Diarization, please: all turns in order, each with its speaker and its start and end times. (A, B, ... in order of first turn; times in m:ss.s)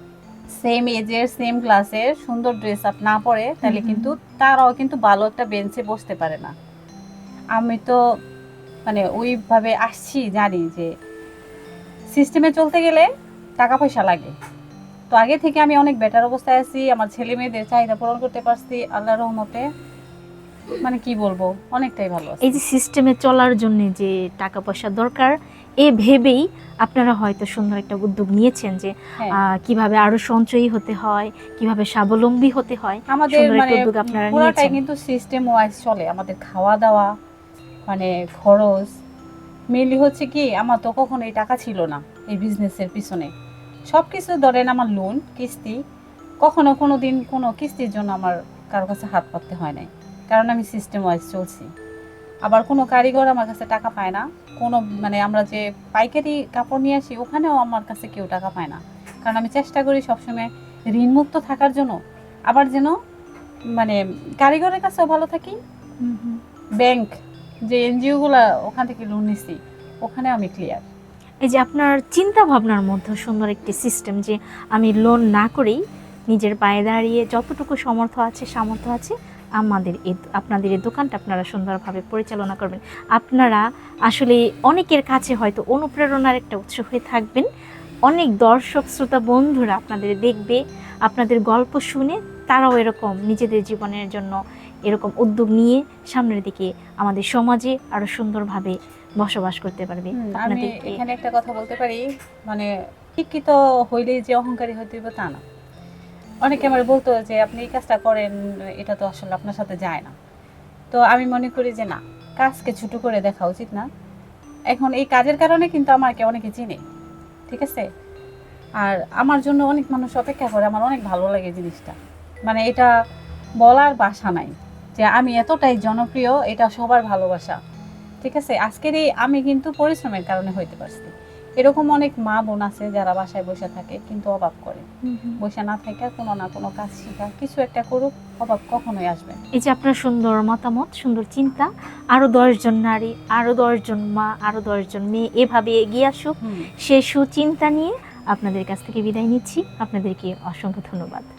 0:00.6-0:06.5 A
0:03.6-0:04.1 B
0:07.5-0:08.0 A
0:08.8-0:10.9 A
0:12.1-0:13.1 A
0:13.6-0:14.3 A
0:15.1-0:19.6 A
0:20.8-0:22.6 A
0:22.4-0:28.9 B
0:29.6-0:34.8 B
0:33.1-0:37.1 A
0:37.8-0:38.9 A
0:39.7-0:43.3 A
0:43.9-0:45.8 A
0:46.4-0:51.7 A
0:52.4-1:02.0 A
1:02.5-1:02.9 A
1:03.8-1:05.6 A
1:06.0-1:06.4 B
1:06.8-1:07.1 A
1:07.7-1:10.8 A
1:11.4-1:27.5 B
1:28.1-1:34.4 B
1:34.9-1:41.0 B
1:40.2-1:45.4 A
1:46.4-1:50.1 A
1:50.9-1:53.9 A
1:54.7-1:56.8 A
1:57.5-1:57.8 A
1:58.8-2:02.0 A
2:02.5-2:02.9 A
2:03.6-2:07.6 A
2:08.2-2:14.8 A
2:15.0-2:15.4 B
2:15.4-2:19.4 A
2:19.6-2:31.3 B
2:26.4-2:26.7 A